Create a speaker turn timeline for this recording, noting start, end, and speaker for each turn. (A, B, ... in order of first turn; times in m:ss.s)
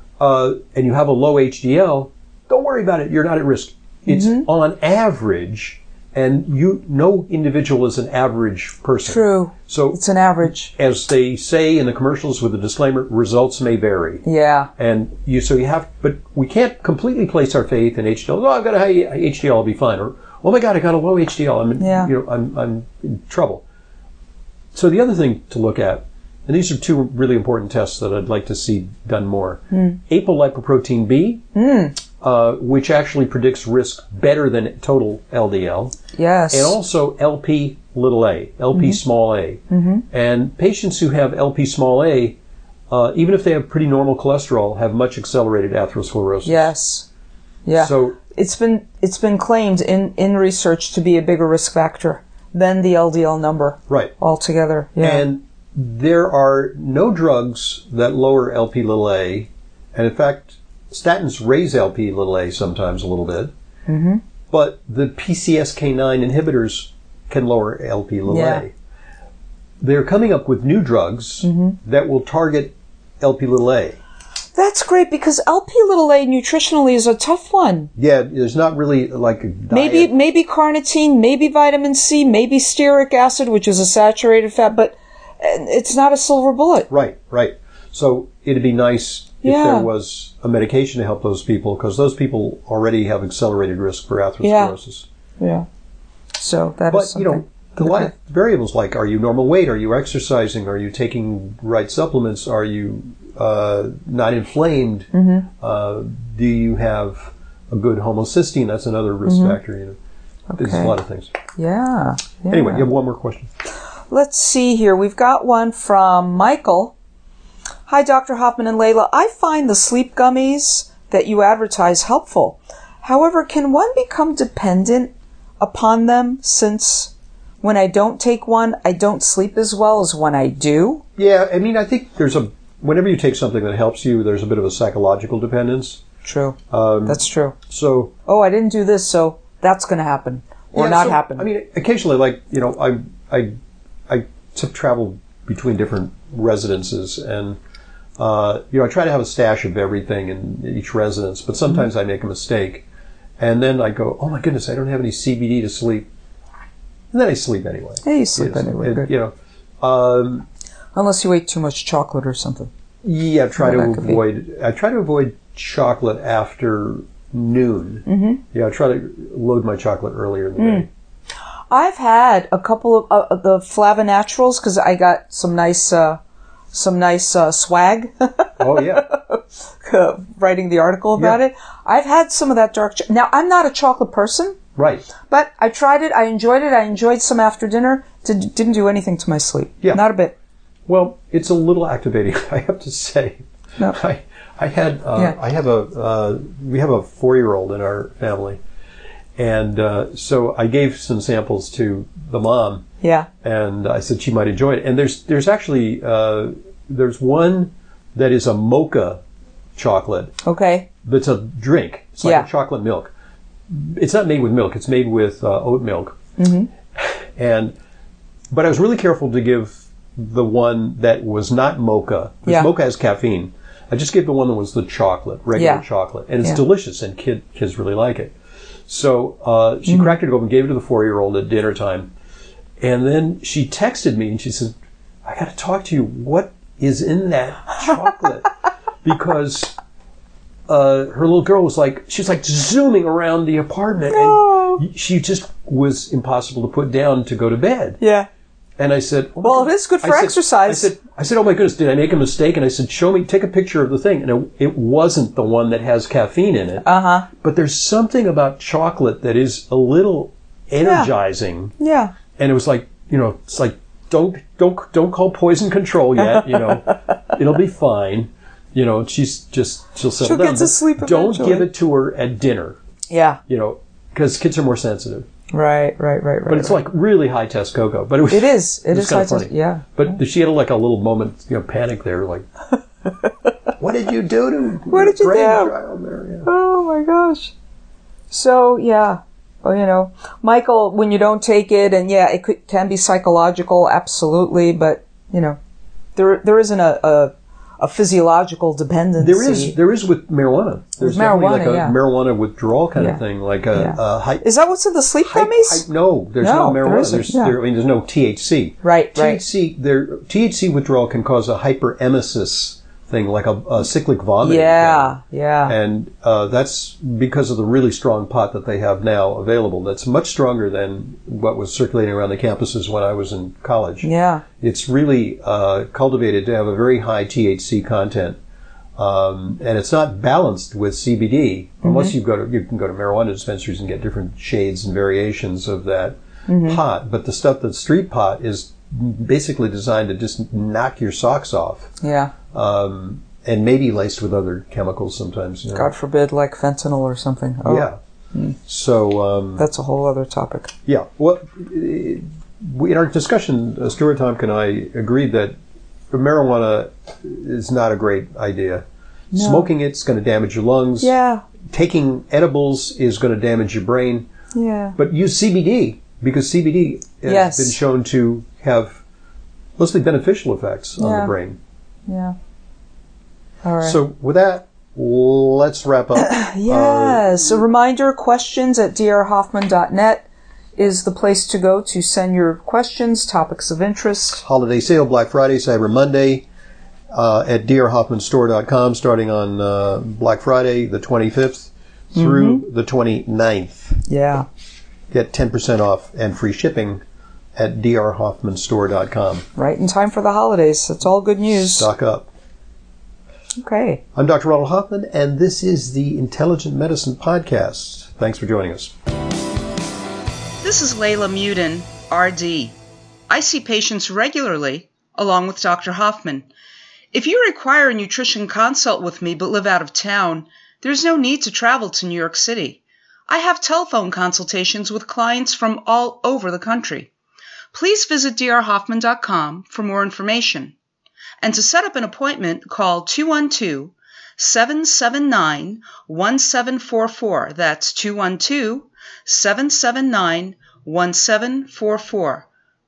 0:00.2-0:14.2 A
0:04.1-0:04.5 B
0:09.0-0:10.7 B
0:14.2-0:14.7 B
0:14.8-0:23.6 A
0:21.8-0:22.1 B
0:24.7-0:31.4 A
0:29.7-0:30.0 B
0:31.6-0:32.0 B
0:32.2-0:36.0 A
0:36.1-0:36.8 B
0:36.5-0:42.4 A
0:39.7-0:40.0 B
0:42.9-0:46.7 A
0:46.4-0:47.1 B
0:47.7-0:55.3 B
0:47.8-0:48.2 A
0:53.9-0:54.1 A
0:55.0-1:03.5 A
1:03.9-1:04.2 B
1:04.5-1:08.7 A
1:08.3-1:08.6 B
1:09.8-1:14.0 A
1:11.4-1:11.8 B
1:14.6-1:17.9 B
1:18.0-1:20.1 A
1:19.7-1:26.9 B
1:26.9-1:35.1 A
1:29.4-1:29.9 B
1:34.4-1:34.8 B
1:35.4-1:35.7 B
1:36.4-1:38.1 B
1:36.9-1:50.0 A
1:45.1-1:45.5 B
1:49.2-1:49.6 B
1:50.5-1:51.0 B
1:50.6-1:51.3 A
1:51.5-1:52.9 B
1:52.5-1:53.5 A
1:54.1-1:57.0 B
1:57.9-2:11.0 B
2:11.2-2:16.0 A
2:16.2-2:17.6 B
2:16.7-2:18.1 A
2:18.3-2:21.5 B
2:20.7-2:23.5 A
2:24.1-2:27.6 A
2:28.2-2:32.8 A
2:33.4-2:36.0 A
2:37.1-2:40.5 A
2:38.0-2:39.1 B
2:41.0-2:42.7 B
2:43.0-2:50.9 A
2:43.6-2:44.2 B
2:48.1-2:48.4 B
2:50.6-2:50.9 B
2:51.7-2:56.2 B
2:56.7-3:04.6 B
2:58.6-2:59.0 A
3:04.8-3:05.1 A
3:05.3-3:10.4 B
3:10.9-3:18.6 A
3:19.4-3:22.8 A
3:23.0-3:23.3 B
3:23.4-3:29.2 A
3:29.8-3:30.3 A
3:30.4-3:30.9 B
3:31.0-3:33.1 A
3:32.2-3:32.5 B
3:33.7-3:36.2 A
3:36.4-3:36.7 B
3:37.0-3:37.7 A
3:38.5-3:48.4 A
3:45.6-3:45.8 B
3:48.9-3:52.1 A
3:49.9-3:50.2 B
3:52.8-3:58.5 A
3:59.0-3:59.7 A
4:00.7-4:08.0 A
4:04.1-4:04.8 B
4:08.0-4:08.3 B
4:08.8-4:16.9 A
4:09.4-4:10.9 B
4:16.8-4:17.3 B
4:17.4-4:21.7 A
4:20.8-4:21.1 B
4:21.8-4:22.1 B
4:22.4-4:32.8 A
4:26.2-4:27.4 B
4:30.2-4:31.7 B
4:33.1-4:33.4 B
4:33.5-4:35.3 A
4:35.5-4:36.8 B
4:36.5-4:42.5 A
4:38.3-4:39.9 B
4:43.8-4:46.5 A
4:44.9-4:45.7 B
4:46.4-4:47.5 B
4:48.3-4:55.6 B
4:56.2-4:59.8 B
4:59.2-5:04.5 A
5:01.0-5:02.0 B
5:03.0-5:03.2 B
5:03.7-5:05.9 B
5:05.2-5:28.4 A
5:06.4-5:07.6 B
5:08.8-5:09.4 B
5:14.4-5:15.8 B
5:24.0-5:24.4 B
5:29.0-5:41.9 A
5:31.8-5:32.1 B
5:36.5-5:36.8 B
5:42.0-5:42.3 B
5:42.5-5:45.9 A
5:45.7-5:48.6 B
5:47.6-5:48.0 A
5:48.7-5:49.7 A
5:49.6-5:50.7 B
5:50.9-5:55.5 A
5:56.1-6:04.3 A
5:59.3-5:59.7 B
6:01.0-6:01.4 B
6:04.6-6:05.0 B
6:05.0-6:09.0 A
6:07.2-6:07.8 B
6:09.8-6:11.6 A
6:11.0-6:11.3 B
6:12.1-6:12.4 B
6:13.6-6:14.0 B
6:13.8-6:17.6 A
6:16.2-6:20.3 B
6:20.8-6:24.4 B
6:24.4-6:26.4 A
6:27.1-6:34.0 A
6:32.1-6:32.6 B
6:34.1-6:34.5 B
6:35.1-6:37.0 A
6:37.6-6:39.5 A
6:39.6-6:41.9 B
6:41.5-6:42.3 A
6:43.6-6:44.0 B
6:44.2-6:48.9 A
6:50.6-6:52.8 B
6:53.3-6:56.5 B
6:57.1-7:07.1 B
7:07.7-7:10.8 B
7:11.4-7:22.5 B